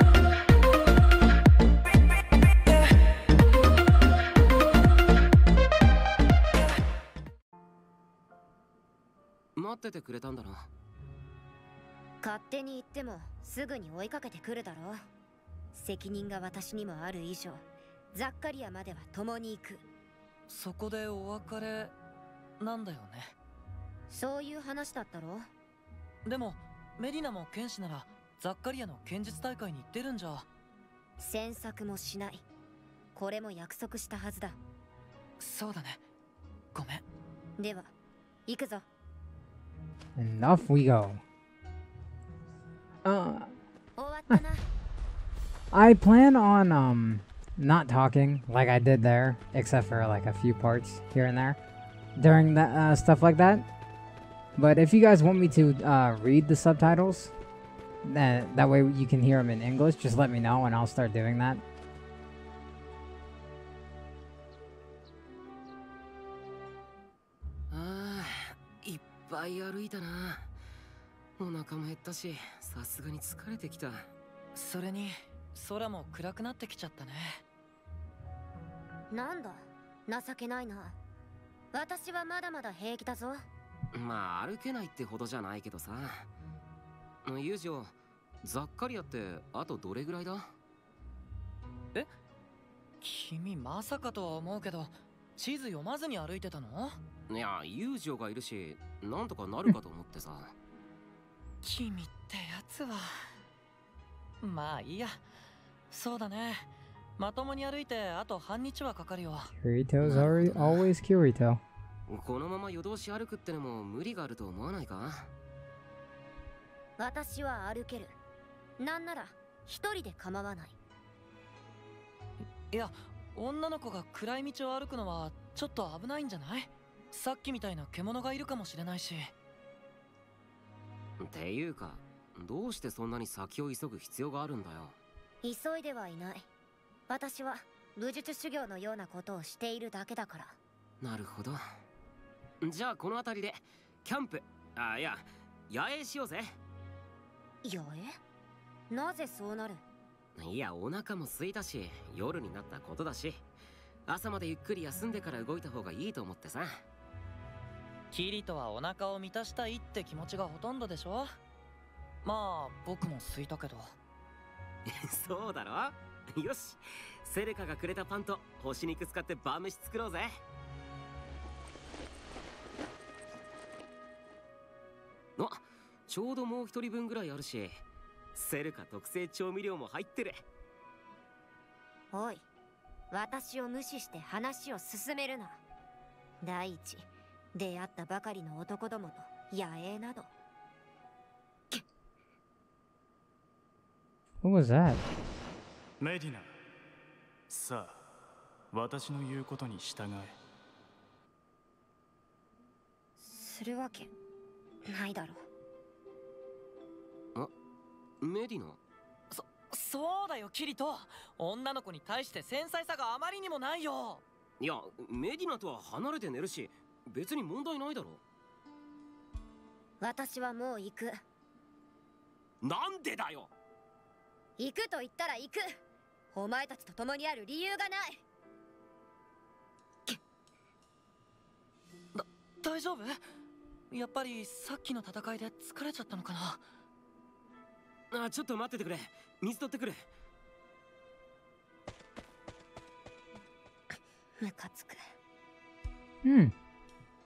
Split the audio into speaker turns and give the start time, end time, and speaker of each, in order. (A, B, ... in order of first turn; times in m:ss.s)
0:09.6-0:10.7 A
0:12.2-0:15.0 B
0:15.7-0:17.6 B
0:18.1-0:19.8 B
0:20.5-0:21.9 C
0:22.6-0:23.3 C
0:24.1-0:25.4 B
0:26.3-0:30.5 C
0:31.2-0:32.4 B
0:33.2-0:34.6 B
0:35.4-0:36.0 C
0:36.7-0:37.0 C
0:37.6-0:37.9 B
0:38.5-0:38.8 B
0:40.2-0:41.2 D
0:43.0-0:43.6 D
0:44.0-0:44.6 B
0:45.7-0:51.6 D
0:52.2-0:53.7 D
0:54.6-0:57.3 D
0:58.0-1:01.6 D
1:07.7-1:10.5 A
1:11.4-1:14.1 A
1:14.6-1:17.4 C
1:19.1-1:21.0 B
1:21.7-1:23.4 B
1:23.9-1:26.3 A
1:27.2-1:30.4 A
1:33.0-1:37.0 C
1:37.3-1:40.6 A
1:41.6-1:43.1 C
1:44.4-1:45.2 C
1:45.9-1:49.5 C
1:49.6-1:51.6 D
1:50.0-1:50.9 A
1:52.1-1:55.3 A
1:57.0-1:58.2 B
1:58.8-2:00.8 B
2:02.4-2:09.3 C
2:11.2-2:15.0 A
2:15.4-2:16.5 B
2:17.1-2:20.6 B
2:21.0-2:21.6 A
2:22.6-2:26.6 A
2:27.6-2:28.2 B
2:28.9-2:29.8 B
2:30.4-2:33.4 A
2:34.1-2:36.8 A
2:38.1-2:41.4 C
2:42.2-2:43.9 C
2:44.9-2:50.3 A
2:55.4-2:57.8 A
2:58.4-3:00.4 A
3:02.1-3:02.4 B
3:03.1-3:05.6 B
3:06.4-3:10.3 B
3:14.4-3:15.1 D
3:16.0-3:16.5 E
3:17.5-3:18.0 E
3:18.7-3:20.4 E
3:23.2-3:24.1 B
3:24.9-3:25.4 B
3:28.2-3:28.8 A
3:29.3-3:34.2 C
3:34.6-3:38.2 A
3:40.0-3:41.2 B
3:42.6-3:43.5 A
3:44.6-3:45.6 B
3:46.3-3:48.2 B
3:52.2-3:53.2 C
3:53.9-3:56.6 C
3:58.1-4:00.0 A
4:04.4-4:05.0 B
4:06.2-4:06.5 D